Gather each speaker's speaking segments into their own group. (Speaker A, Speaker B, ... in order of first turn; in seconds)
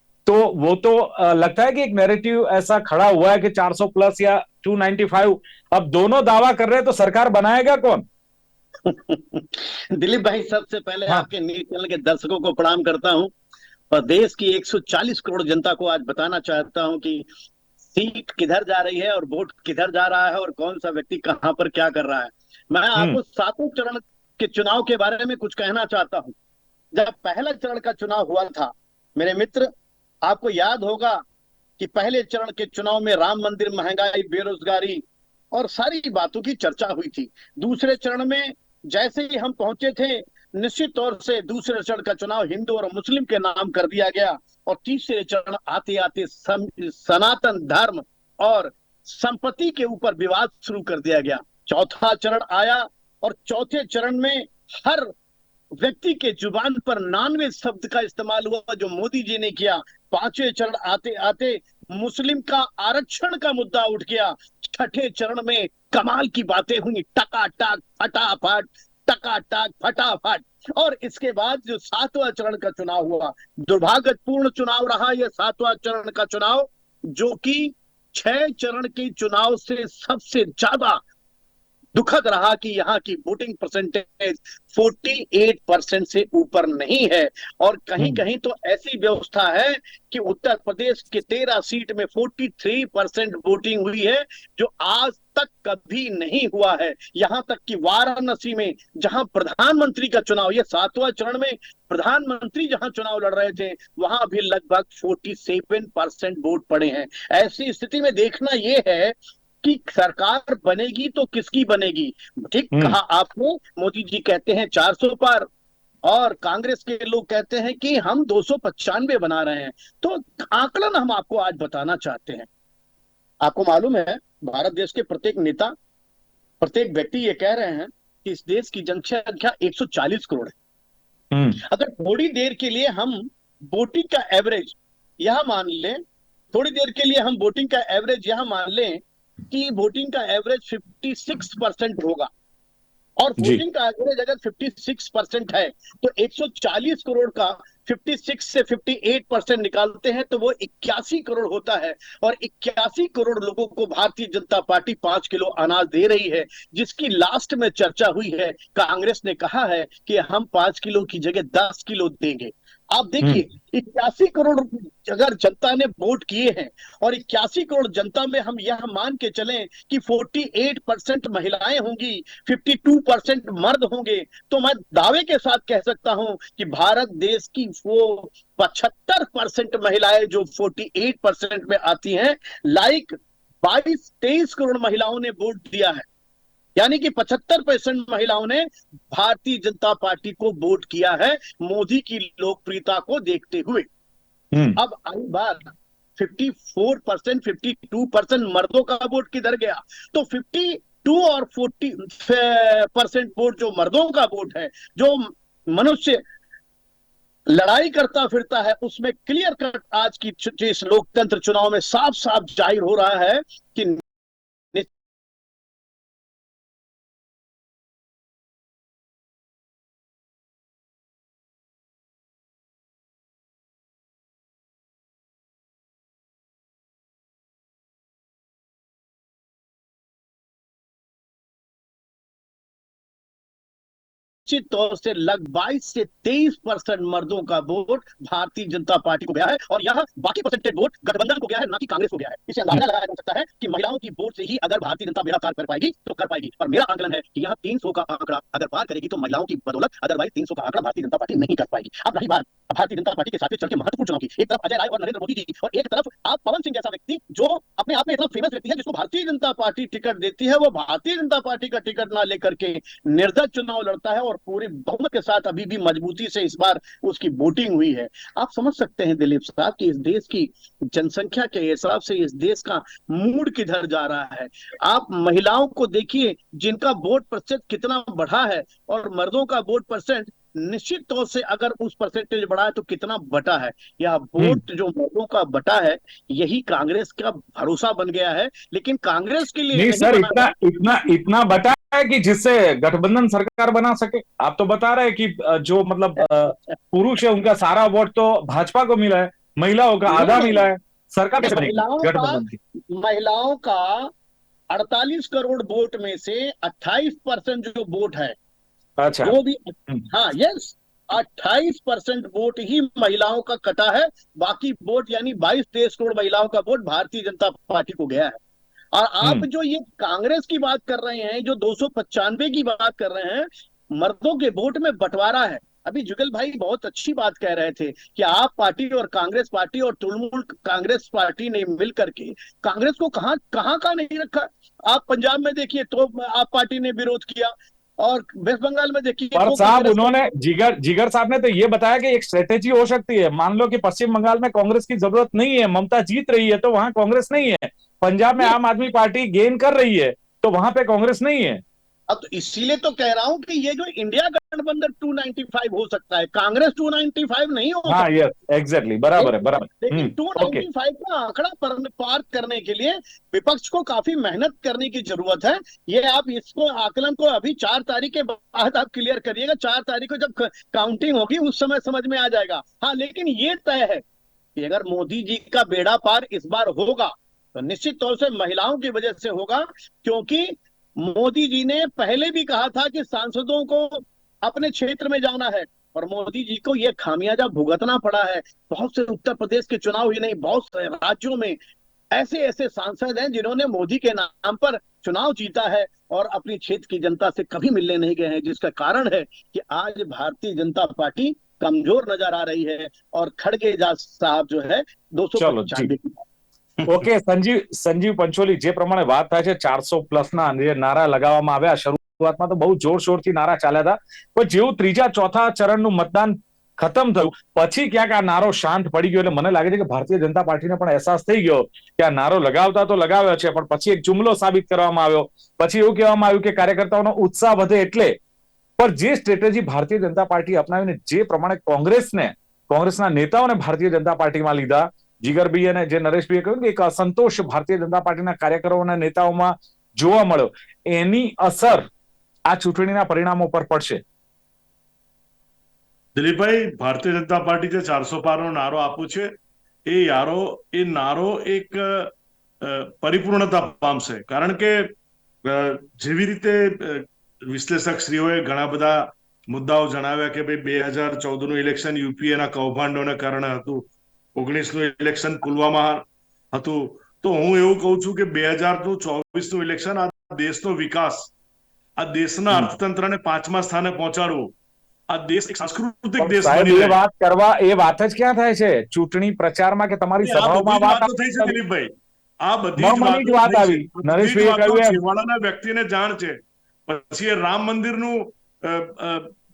Speaker A: 0.3-8.0, 131.3-131.6, 194.5-194.8, 289.7-302.6, 309.0-309.4, 339.4-351.6, 357.9-360.6, 405.4-405.9, 406.9-428.2, 428.8-441.9, 442.5-444.0, 476.2-481.6, 482.8-485.0
Speaker B: 8.8-13.3, 13.9-17.3, 17.9-26.4, 26.9-29.7, 30.2-31.2, 31.8-55.1, 55.8-81.0, 82.0-115.5, 116.0-122.5, 123.4-125.7, 126.6-130.5, 131.7-136.0, 136.5-142.3, 143.2-186.1, 186.8-193.9, 194.8-206.2, 207.5-214.0, 234.5-290.5, 296.2-296.6, 300.1-300.7, 301.4-304.1, 304.7-308.4, 309.2-318.4, 318.9-340.1, 352.1-358.1, 359.2-374.0, 374.6-391.6, 392.1-406.2
Speaker C: 446.1-449.3, 449.9-452.1, 452.6-471.3, 472.0-474.5, 475.1-477.0, 480.2-481.9, 482.4-489.3